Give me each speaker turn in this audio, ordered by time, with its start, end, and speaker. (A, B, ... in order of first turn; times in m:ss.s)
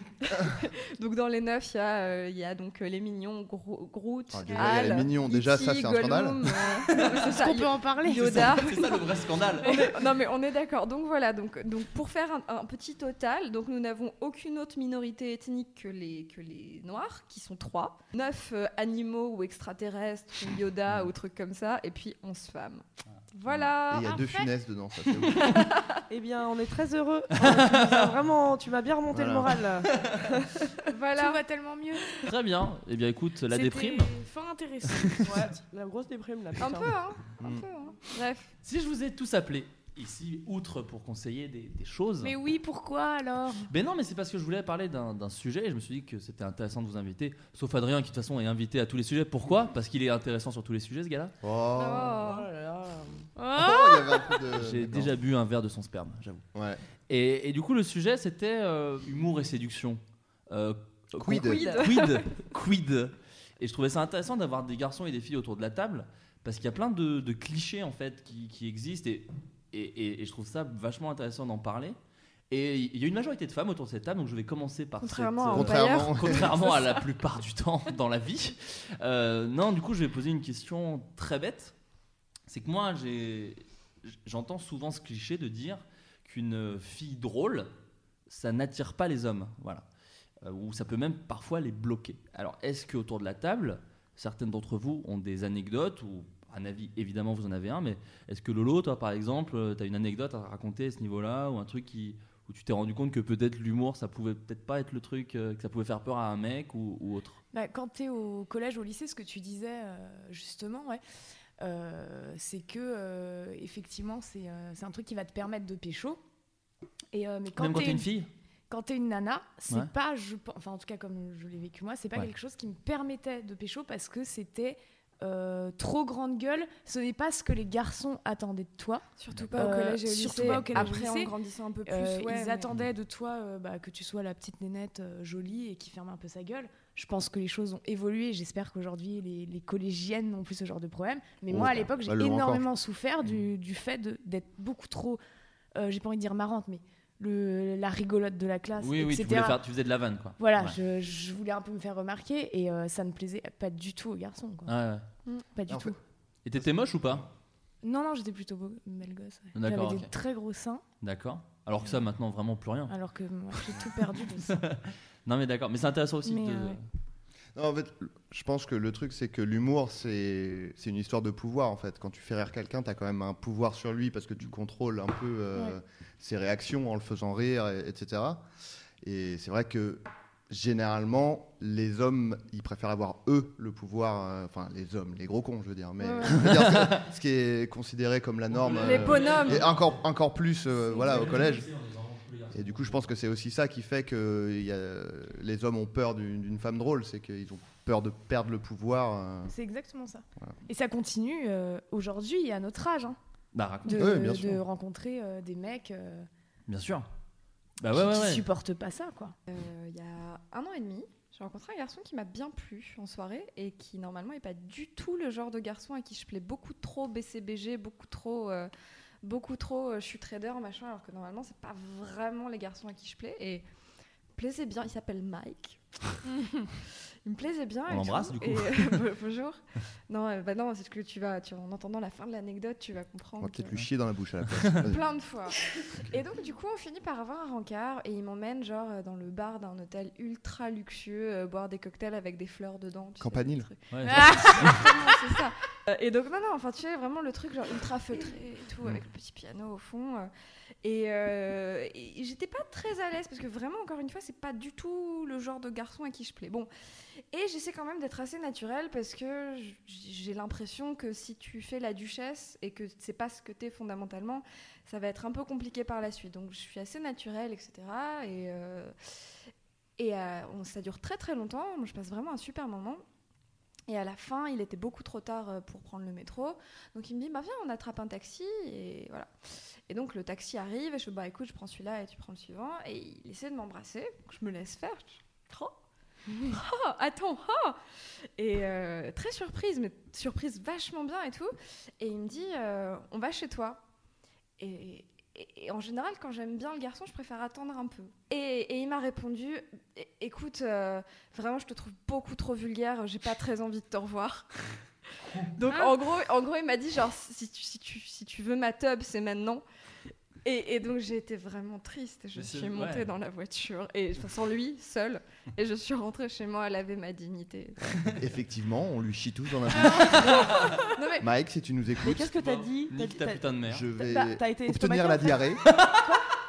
0:00.2-0:09.0 A
0:04.3-0:06.4 B
0:04.5-0:05.1 C
0:07.2-0:09.1 C
0:08.2-0:10.0 D
0:09.6-0:10.0 C
0:09.6-0:24.3 A
0:23.9-0:25.5 B
0:24.0-0:24.5 C
0:25.3-0:26.0 A
0:26.1-0:30.1 E
0:27.4-0:27.9 D
0:29.1-0:29.6 B
0:29.9-0:30.2 D
0:30.4-0:31.4 A
0:31.2-0:32.2 C
0:32.2-0:34.1 D
0:33.5-0:35.6 C
0:35.0-0:35.3 D
0:35.3-0:36.9 E
0:36.6-0:38.5 A
0:37.4-0:37.7 B
0:38.6-0:42.4 D
0:42.2-0:43.7 C
0:43.7-0:51.3 D
0:51.4-0:52.2 B
0:51.8-0:52.5 A
0:52.2-0:53.3 E
0:53.4-0:54.4 C
0:53.6-0:55.1 B
0:54.5-0:56.4 D
0:56.5-0:56.8 B
0:57.1-1:12.0 D
1:01.2-1:01.7 B
1:01.4-1:02.2 A
1:01.5-1:02.0 E
1:12.5-1:21.8 D
1:15.0-1:17.0 A
1:15.5-1:16.7 B
1:22.5-1:27.7 D
1:28.3-1:29.8 D
1:30.4-1:47.4 D
1:47.5-1:51.0 C
1:51.6-1:56.2 C
1:57.1-1:58.1 C
1:57.6-1:58.3 D
1:58.7-2:09.0 C
2:09.2-2:12.7 A
2:09.6-2:11.3 C
2:11.8-2:25.2 C
2:21.5-2:22.6 B
2:25.8-2:29.6 C
2:28.8-2:30.8 D
2:30.4-2:34.8 C
2:34.7-2:35.0 D
2:35.6-2:36.0 C
2:35.7-2:36.0 B
2:36.4-2:37.3 D
2:36.6-2:37.2 B
2:37.8-2:40.8 C
2:39.6-2:40.1 D
2:41.0-2:43.0 D
2:42.9-2:44.6 C
2:43.5-2:46.8 D
2:46.3-2:46.8 C
2:47.6-2:58.5 B
2:59.0-3:11.7 B
3:06.0-3:06.3 A
3:06.4-3:07.0 D
3:08.5-3:10.0 D
3:08.8-3:09.7 A
3:10.9-3:13.1 D
3:12.5-3:19.5 B
3:19.5-3:23.2 C
3:23.5-3:24.2 D
3:23.9-3:26.3 C
3:23.9-3:24.6 B
3:26.7-3:27.1 D
3:27.8-3:28.4 D
3:27.9-3:29.3 C
3:29.5-3:38.7 A
3:39.2-3:43.6 A
3:44.4-3:53.9 A
3:47.9-3:49.0 D
3:53.4-3:55.2 B
3:54.8-4:10.3 A
4:03.2-4:04.4 B
4:03.9-4:04.8 D
4:04.0-4:05.3 C
4:10.8-4:16.7 A
4:17.3-4:28.9 A
4:30.0-4:33.0 A
4:33.9-4:39.3 A
4:39.9-4:45.7 A
4:46.3-4:47.8 A
4:48.4-4:53.8 A
4:54.6-5:04.8 A
5:05.6-5:09.6 A
5:10.4-5:17.8 A
5:12.3-5:13.1 D
5:18.2-5:20.5 B
5:19.9-5:20.6 D
5:20.1-5:21.3 A
5:21.2-5:22.3 B
5:22.0-5:25.5 E
5:22.3-5:23.8 D
5:23.7-5:25.6 B
5:25.7-5:26.0 D